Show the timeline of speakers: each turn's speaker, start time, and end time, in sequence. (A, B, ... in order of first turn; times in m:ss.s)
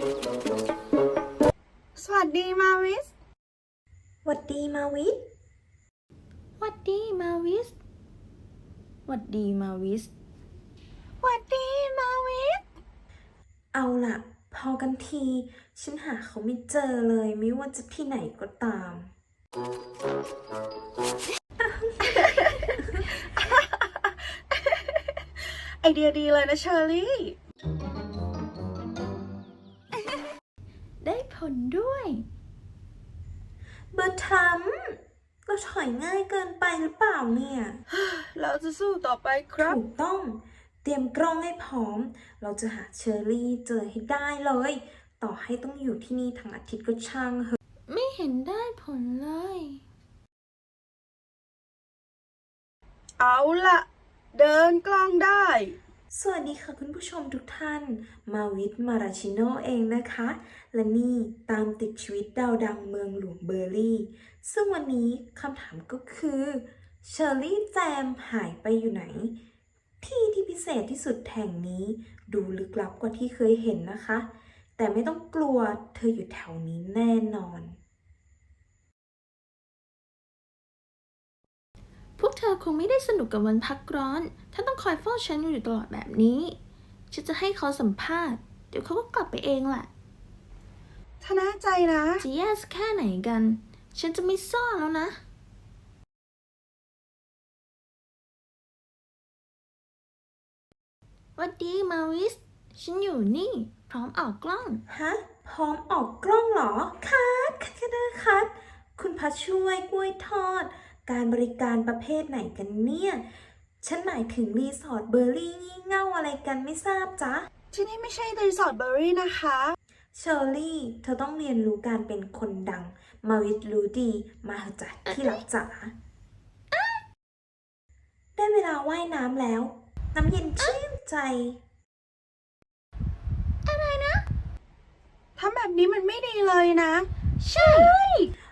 0:02.0-0:03.1 A
0:04.2-0:05.2 B
0:06.6-0:07.7 C
0:09.1-0:10.1 C
0:11.2-0:12.6 A
0:13.7-0:19.1 B
0:21.6-0:22.2 B
0:23.3-0:25.0 A
0:25.8-0:27.4 A
0:31.0-0:32.3 C
0:33.9-0:37.8 B
0:37.9-0:39.8 A
0:39.6-0:47.6 B
0:47.9-0:49.8 C
0:53.2-0:55.8 A
0:56.1-1:09.4 B
1:10.0-1:17.8 B
1:22.2-1:26.6 C
1:27.1-1:29.9 C
1:31.2-1:32.3 A
1:32.2-1:35.2 C
1:41.4-1:44.8 C
1:44.9-1:53.2 B
1:53.8-1:57.5 B
1:57.7-1:59.8 A
2:00.2-2:06.0 B
2:05.0-2:05.4 C
2:06.7-2:07.0 C
2:08.4-2:11.6 B
2:13.6-2:14.3 C
2:15.4-2:18.3 A
2:17.4-2:17.9 C